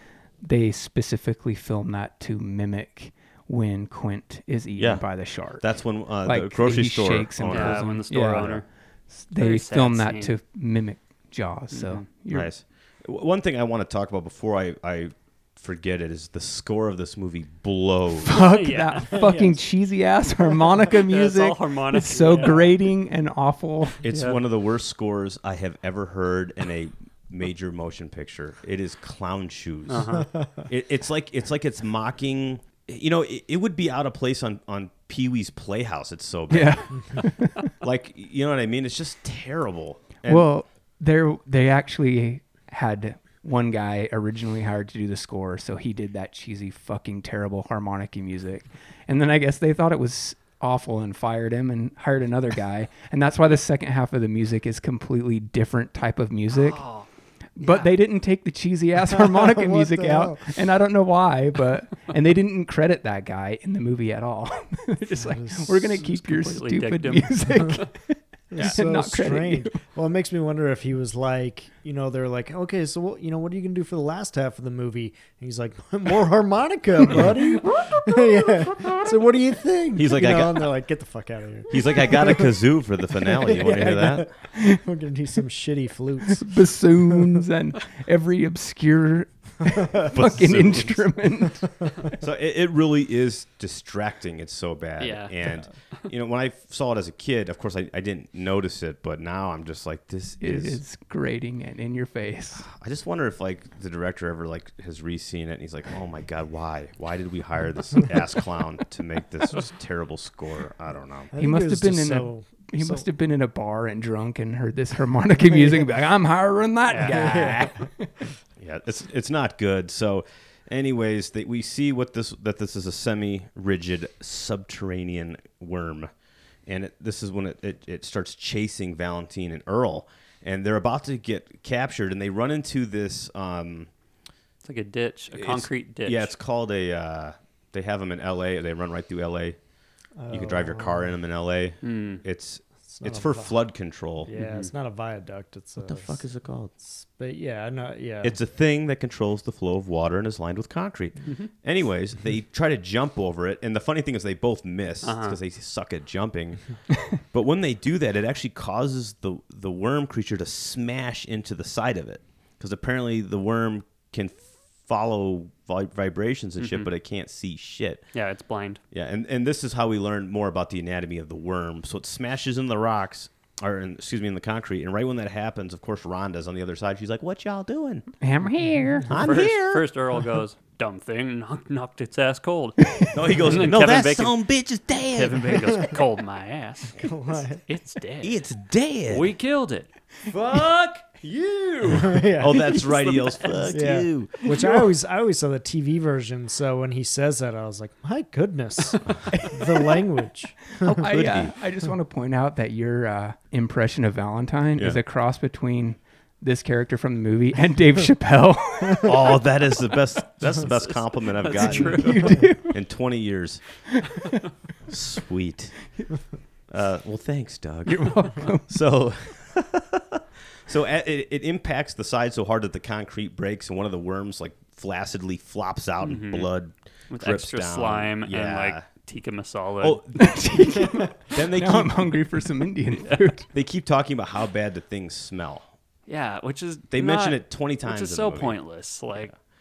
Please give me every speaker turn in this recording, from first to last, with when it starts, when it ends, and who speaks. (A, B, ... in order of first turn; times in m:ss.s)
0:00.4-0:05.6 A
0:04.8-0:08.6 B
0:06.2-0:12.5 A
0:07.5-0:08.6 C
0:09.3-0:10.3 C
0:11.7-0:12.0 C
0:12.3-0:18.4 B
0:18.2-0:24.0 A
0:18.4-0:19.3 C
0:19.1-0:19.6 D
0:21.0-0:22.7 C
0:22.2-0:22.6 D
0:24.0-0:37.2 B
0:24.1-0:24.4 C
0:29.9-0:30.3 C
0:36.5-0:37.7 A
0:37.8-0:40.5 B
0:40.2-0:56.8 A
0:56.5-0:57.1 C
0:57.6-1:09.8 A
0:57.6-0:57.9 C
0:59.1-1:00.4 D
1:05.2-1:05.9 D
1:06.0-1:07.9 C
1:08.5-1:22.6 D
1:19.9-1:20.7 B
1:21.7-1:24.3 B
1:23.2-1:27.4 D
1:24.5-1:24.8 A
1:26.3-1:31.9 A
1:29.7-1:30.0 D
1:30.0-1:31.2 B
1:32.2-1:40.8 B
1:35.0-1:35.3 C
1:40.4-1:42.6 A
1:42.6-1:51.3 B
1:51.3-1:53.0 D
1:51.4-1:58.1 A
1:56.9-1:57.2 C
1:57.0-1:57.9 D
1:58.6-2:06.1 B
2:06.7-2:13.9 B
2:14.6-2:16.3 C
2:15.3-2:19.6 B
2:20.2-2:21.1 D
2:20.3-2:24.3 B
2:21.8-2:22.2 C
2:22.9-2:23.5 D
2:24.2-2:26.2 D
2:24.3-2:24.7 C
2:25.8-2:26.7 B
2:26.9-2:28.4 D
2:28.2-2:48.0 B
2:35.0-2:35.4 C
2:46.6-2:46.9 C
2:48.1-2:48.8 C
2:48.9-2:58.1 B
2:58.2-2:59.1 A
2:59.1-2:59.8 B
2:59.1-3:04.4 C
3:03.1-3:06.0 B
3:05.1-3:07.1 C
3:07.0-3:07.6 D
3:07.6-3:08.4 C
3:08.2-3:09.3 B
3:09.1-3:09.9 C
3:10.3-3:14.6 B
3:11.9-3:12.8 D
3:12.6-3:13.8 C
3:13.7-3:21.0 D
3:19.4-3:19.8 A
3:20.8-3:21.5 B
3:20.8-3:29.4 A
3:29.0-3:33.8 B
3:30.7-3:32.4 C
3:31.5-3:32.8 A
3:34.0-3:34.3 A
3:34.9-3:35.8 B
3:36.7-3:48.8 B
3:37.8-3:38.6 A
3:46.0-3:46.5 C
3:47.1-3:50.0 C
3:49.8-3:52.1 B
3:50.2-3:53.5 A
3:53.5-3:55.7 B
3:56.1-3:59.3 C
3:56.9-3:58.5 B